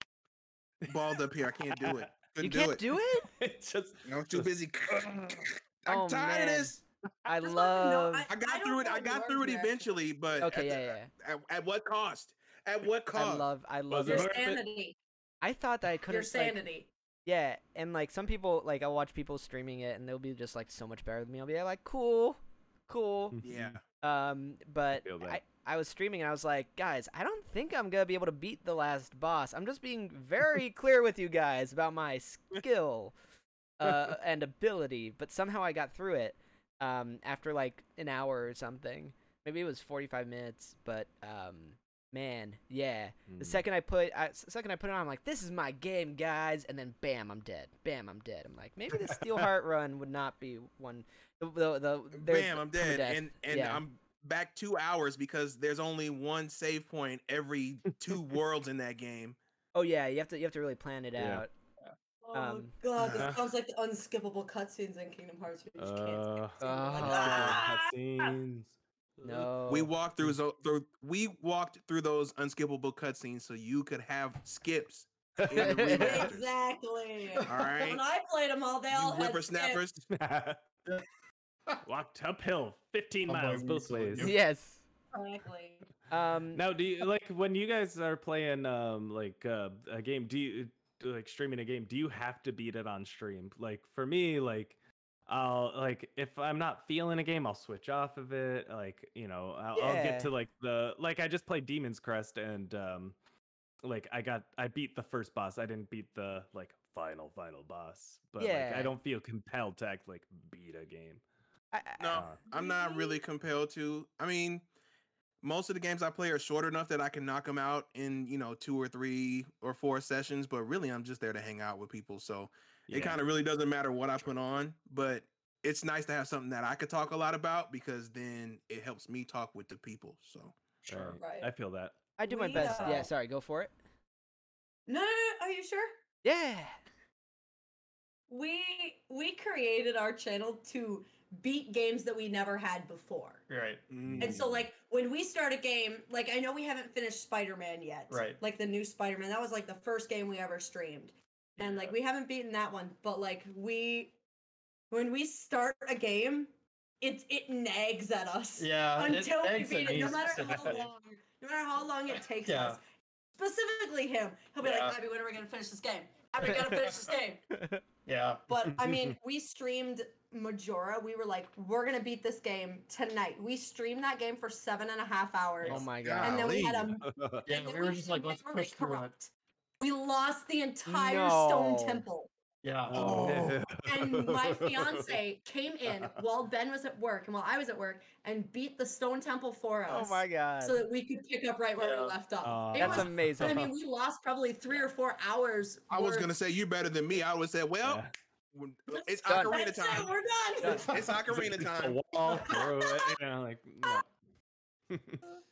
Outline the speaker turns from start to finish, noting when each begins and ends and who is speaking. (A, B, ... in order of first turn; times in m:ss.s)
0:00.8-0:02.1 A
0:00.9-0:02.8 B
0:02.4-0:03.3 C
0:03.2-0:05.4 A
0:04.0-0:06.8 B
0:05.9-0:08.3 C
0:07.4-0:10.0 D
0:08.3-0:13.5 B
0:10.4-0:11.1 C
0:13.1-0:14.4 C
0:13.9-0:14.6 A
0:14.1-0:15.0 D
0:15.4-0:16.6 C
0:16.1-0:16.9 D
0:17.3-0:23.4 C
0:23.3-0:23.8 A
0:23.4-0:23.8 B
0:24.0-0:33.1 C
0:25.0-0:25.4 A
0:33.8-0:53.8 C
0:43.3-0:43.6 A
0:52.1-0:59.4 B
0:59.7-1:01.5 C
1:01.2-1:01.4 A
1:02.2-1:08.3 D
1:02.3-1:02.7 C
1:03.0-1:03.4 B
1:03.2-1:03.4 A
1:05.8-1:09.5 A
1:06.6-1:07.6 C
1:09.2-1:09.9 C
1:09.7-1:16.5 B
1:15.4-1:16.3 A
1:15.5-1:16.3 C
1:15.7-1:19.8 D
1:17.4-1:17.8 E
1:17.4-1:18.0 B
1:18.9-1:20.1 B
1:20.1-1:20.6 A
1:21.8-1:24.3 A
1:23.3-1:24.4 E
1:24.2-1:24.8 C
1:25.1-1:25.9 D
1:26.1-1:26.6 C
1:26.5-1:34.8 A
1:35.3-1:43.2 A
1:39.8-1:40.3 C
1:43.8-1:51.2 A
1:48.4-1:48.9 C
1:51.7-1:52.2 C
1:52.0-1:54.6 B
1:52.1-1:52.4 A
1:52.5-1:53.2 D
1:55.4-2:10.6 B
2:02.9-2:03.2 A
2:10.9-2:12.0 A
2:11.2-2:11.5 D
2:12.2-2:13.7 C
2:12.3-2:13.1 D
2:12.5-2:13.1 A
2:14.9-2:15.9 D
2:16.2-2:16.8 C
2:18.3-2:23.4 D
2:23.5-2:23.9 E
2:23.9-2:24.4 B
2:24.1-2:24.6 A
2:24.2-2:34.2 D
2:28.1-2:28.4 E
2:31.6-2:31.9 E
2:34.9-2:42.8 D
2:38.6-2:40.9 E
2:42.4-2:42.8 E
2:43.4-2:47.4 D
2:44.6-2:45.0 E
2:46.4-2:46.8 C
2:47.5-2:47.8 C
2:48.1-2:48.7 E
2:48.5-3:02.3 D
2:48.8-2:49.2 A
2:55.7-2:56.7 C
2:55.9-2:57.0 B
2:57.0-2:57.4 A
2:57.5-2:59.1 E
3:00.9-3:02.1 C
3:02.6-3:03.6 E
3:02.9-3:05.2 A
3:02.9-3:03.6 B
3:03.8-3:16.3 D
3:05.9-3:06.2 A
3:09.9-3:10.8 C
3:11.8-3:12.2 E
3:12.4-3:13.7 A
3:12.8-3:13.7 C
3:15.9-3:20.2 B
3:17.8-3:18.1 A
3:18.9-3:21.0 D
3:19.2-3:19.6 C
3:20.6-3:21.2 E
3:20.8-3:22.0 B
3:21.3-3:24.1 A
3:22.3-3:23.2 D
3:24.9-3:25.2 A